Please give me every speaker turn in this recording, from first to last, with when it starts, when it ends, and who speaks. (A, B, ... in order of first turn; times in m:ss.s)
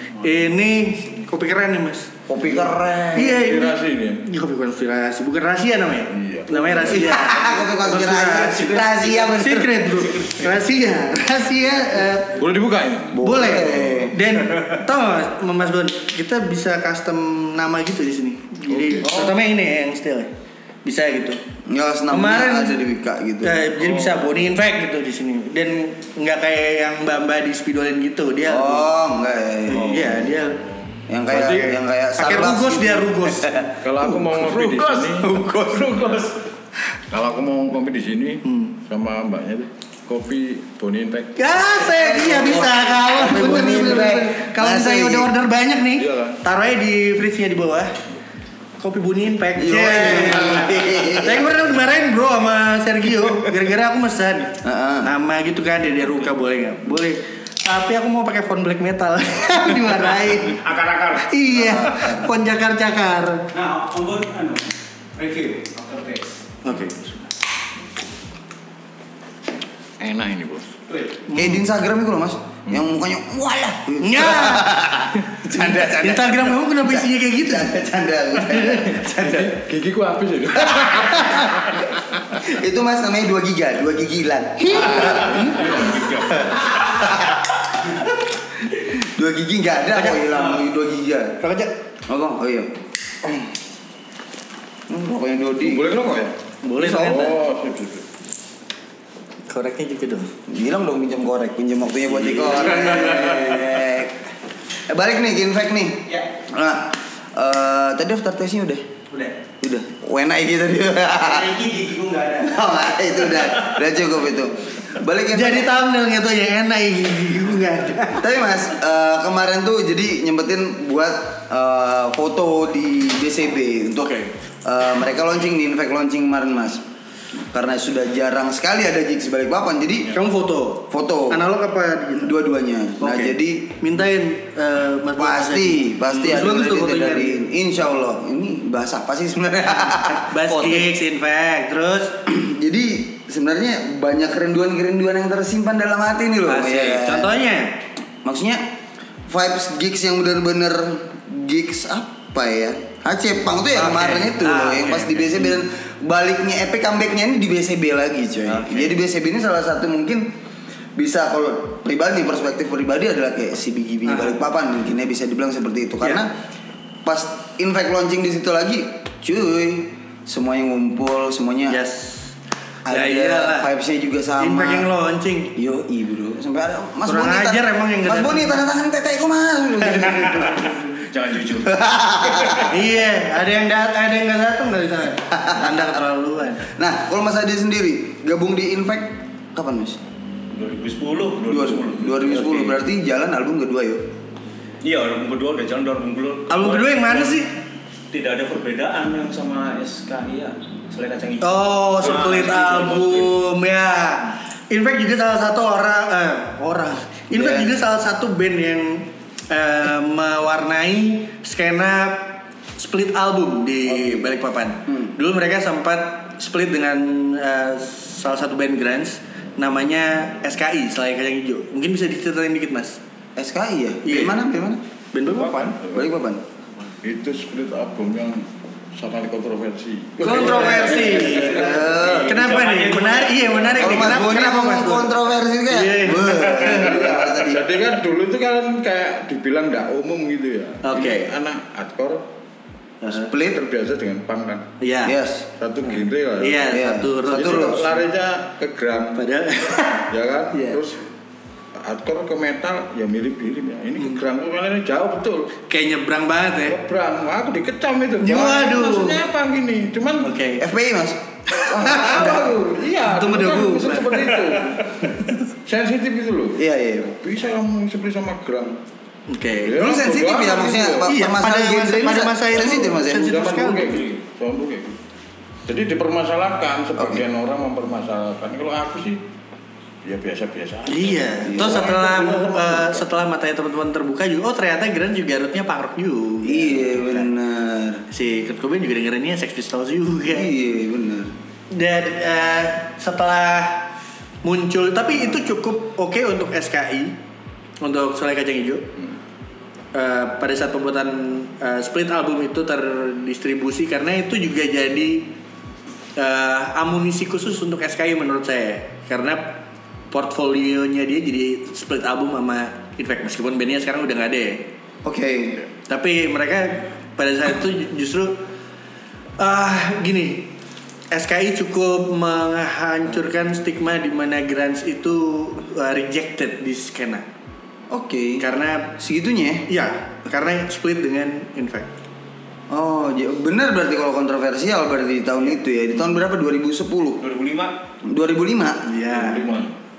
0:00.2-0:02.1 A
0:02.3-0:03.4 B
0:02.6-0:04.2 C
0:03.1-0:12.4 A
0:06.1-0:07.2 C
0:06.9-0:09.9 B
0:08.7-0:09.4 D
0:10.0-0:10.4 D
0:12.4-0:14.1 C
0:13.1-0:14.2 B
0:13.2-0:20.3 A
0:18.7-0:19.3 C
0:19.0-0:19.4 B
0:20.8-0:21.4 A
0:21.7-0:23.7 B
0:22.1-0:22.8 A
0:23.4-0:28.9 A
0:28.5-0:30.4 B
0:29.7-0:30.6 A
0:31.1-0:34.4 B
0:31.3-0:31.8 C
0:32.2-0:33.7 A
0:33.8-0:36.4 C
0:35.0-0:36.0 B
0:37.1-0:41.4 C
0:38.5-0:38.7 A
0:41.4-0:47.9 A
0:41.8-0:45.3 B
0:46.0-0:46.4 C
0:48.8-1:00.6 A
0:49.6-0:51.5 B
0:54.6-0:55.1 B
1:00.5-1:01.3 D
1:01.2-1:03.4 A
1:01.5-1:02.3 B
1:03.5-1:06.3 E
1:06.6-1:07.3 A
1:10.0-1:10.8 C
1:10.9-1:11.2 E
1:11.3-1:11.7 A
1:11.4-1:19.5 B
1:14.0-1:14.9 A
1:15.4-1:17.7 A
1:18.5-1:19.0 A
1:19.0-1:22.4 C
1:20.6-1:21.7 B
1:22.4-1:25.6 B
1:24.7-1:26.7 C
1:25.4-1:26.5 D
1:26.8-1:27.4 B
1:28.7-1:31.4 B
1:30.0-1:30.6 A
1:31.4-1:31.7 A
1:32.1-1:33.4 B
1:34.9-1:35.9 B
1:35.6-1:38.0 C
1:36.6-1:37.4 A
1:36.8-1:37.1 B
1:39.5-1:40.3 A
1:40.5-1:44.2 B
1:44.9-1:48.9 B
1:49.6-1:51.6 B
1:51.2-1:52.6 E
1:52.4-1:55.7 B
1:55.3-1:58.3 A
1:58.2-2:04.1 B
2:04.0-2:04.3 A
2:04.6-2:06.8 B
2:07.4-2:10.2 B
2:10.1-2:12.4 A
2:10.9-2:11.4 B
2:12.2-2:13.7 B
2:13.0-2:17.4 A
2:15.2-2:20.9 B
2:19.8-2:22.2 A
2:22.3-2:27.4 B
2:26.5-2:27.8 A
2:28.2-2:28.7 B
2:29.3-2:40.3 B
2:33.7-2:35.6 A
2:38.5-2:39.0 A
2:41.0-2:46.3 B
2:44.1-2:44.4 A
2:47.0-2:51.8 B
2:51.7-2:52.3 A
2:52.9-2:54.9 B
2:52.9-2:53.7 A
2:54.4-2:55.5 A
2:55.6-3:00.9 B
2:57.1-2:58.6 A
2:59.9-3:00.6 A
3:01.0-3:02.7 D
3:01.6-3:02.7 B
3:02.7-3:06.7 A
3:05.3-3:06.0 B
3:06.6-3:10.0 B
3:10.5-3:12.8 D
3:11.5-3:14.1 B
3:14.8-3:17.4 D
3:16.5-3:17.5 A
3:18.1-3:23.3 D
3:21.4-3:43.0 A
3:27.3-3:27.7 B
3:34.0-3:34.2 B
3:34.9-3:35.1 B
3:43.4-3:44.8 B
3:44.0-3:44.4 A
3:45.1-3:45.8 A
3:45.3-3:45.7 D
3:45.8-3:46.1 C
3:45.9-3:46.4 B
3:47.0-3:51.8 C
3:50.2-3:56.9 A
3:50.2-3:52.5 B
3:51.8-3:54.1 D
3:53.8-3:57.7 B
3:56.6-4:02.3 C
4:00.8-4:01.3 A
4:03.0-4:03.3 A
4:03.1-4:03.6 B
4:03.4-4:04.7 C
4:04.8-4:05.2 A
4:05.0-4:05.5 B
4:05.6-4:09.2 C
4:06.4-4:08.0 A
4:06.7-4:07.9 B
4:09.2-4:10.8 A
4:10.1-4:11.1 C
4:11.8-4:15.5 C
4:15.7-4:16.8 A
4:16.7-4:20.4 C
4:18.2-4:19.2 A
4:20.2-4:20.6 A
4:20.6-4:24.2 B
4:21.6-4:28.8 C
4:23.2-4:24.3 A
4:26.6-4:27.1 B
4:29.3-4:29.8 A
4:29.6-4:31.1 C
4:29.8-4:33.4 B
4:31.0-4:34.1 A
4:32.6-4:35.0 C
4:35.7-4:39.2 C
4:37.0-4:37.2 B
4:40.0-4:43.1 C
4:40.9-4:47.1 A
4:41.5-4:41.8 B
4:46.4-4:48.0 B
4:48.1-4:50.5 A
4:50.2-4:51.3 B
4:51.7-4:53.9 A
4:54.4-4:57.2 A
4:57.8-4:58.9 A
4:59.9-5:05.3 A
5:06.2-5:14.7 A
5:15.0-5:15.6 B
5:15.9-5:18.4 A
5:19.4-5:20.5 A
5:21.1-5:27.2 A
5:27.9-5:28.4 B
5:28.4-5:29.0 A
5:29.0-5:29.7 B
5:29.7-5:31.9 A
5:32.7-5:37.2 B
5:37.2-5:37.7 D
5:38.0-5:38.9 B
5:38.8-5:39.4 A
5:39.0-5:39.8 C